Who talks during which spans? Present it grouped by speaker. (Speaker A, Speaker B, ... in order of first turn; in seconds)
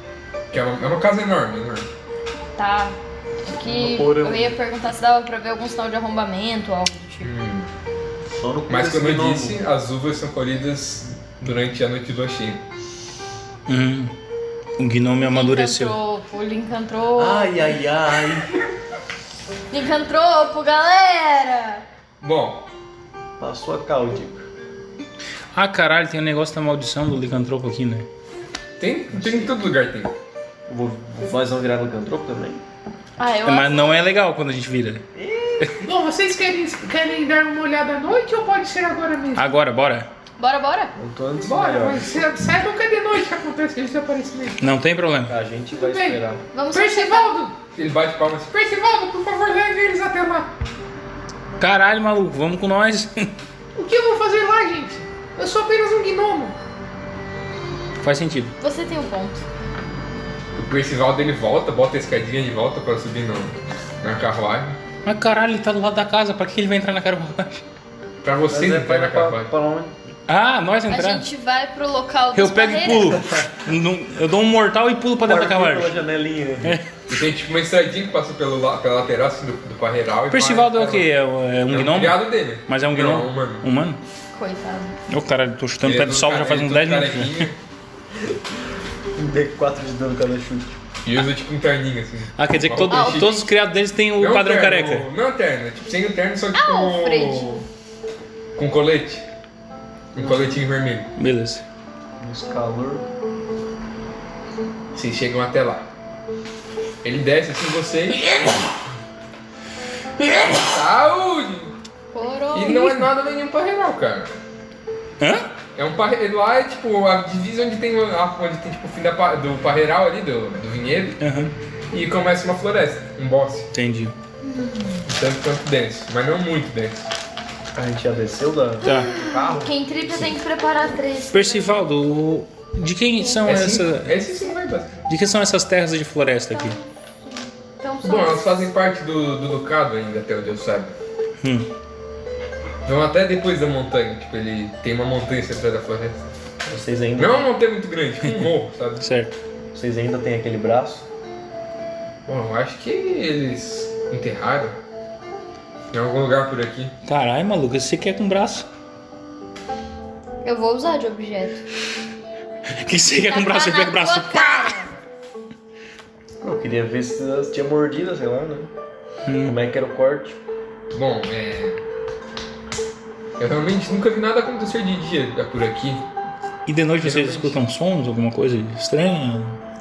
Speaker A: 0.5-1.9, 7.2-7.7, 8.7-12.6, 22.2-22.6, 28.8-30.1, 47.7-48.5, 60.5-64.8, 68.2-69.5, 77.1-81.1, 81.7-83.7, 85.8-87.5, 91.0-93.4, 94.2-97.6, 98.5-99.2, 100.1-101.1, 104.9-105.9, 107.0-108.7, 110.3-111.7, 112.5-114.3, 115.7-121.2, 121.9-123.7, 125.0-127.1, 129.3-129.7, 133.4-135.0, 138.0-140.9, 142.8-146.2, 147.2-149.0, 152.2-154.8, 155.9-156.9, 170.9-171.8, 173.4-176.1, 177.0-177.6
Speaker B: 2.6-7.3, 15.3-17.7, 19.7-21.8, 33.2-34.1, 40.4-40.9, 46.5-47.3, 58.6-59.4, 70.9-73.2, 84.3-84.9, 92.9-93.5, 96.5-97.6, 112.1-113.1, 124.4-125.0, 128.8-131.8, 133.2-133.4, 136.5-138.7, 160.4-161.6, 163.2-164.9
Speaker C: 3.6-4.5, 8.4-9.6, 17.1-18.5, 23.4-24.4, 29.1-29.6, 30.7-32.6, 35.1-35.8, 40.9-42.3, 45.3-46.4, 68.5-69.9, 75.2-76.8, 88.1-88.4, 89.1-90.8, 100.2-100.6, 102.2-103.0, 127.7-129.6, 146.6-147.5, 149.7-151.1, 166.4-168.7, 169.4-170.4
Speaker D: 13.7-14.1, 14.8-16.0, 25.5-28.1, 33.4-35.0, 39.3-40.1, 44.6-45.4, 51.6-53.3, 58.0-58.5, 65.0-67.6, 70.3-71.2, 72.3-75.9, 76.6-76.9, 80.3-84.0, 85.1-87.5, 92.4-95.1, 101.2-101.6, 115.2-115.5, 121.2-121.5, 123.7-124.1, 128.8-129.1, 131.3-134.2, 135.1-136.8, 141.4-141.7, 149.0-149.3, 157.0-158.7, 162.7-164.8, 169.2-169.6, 176.7-179.6
Speaker E: 35.8-39.5, 41.4-44.6, 45.7-46.2, 46.7-47.5, 48.5-50.5, 53.8-56.6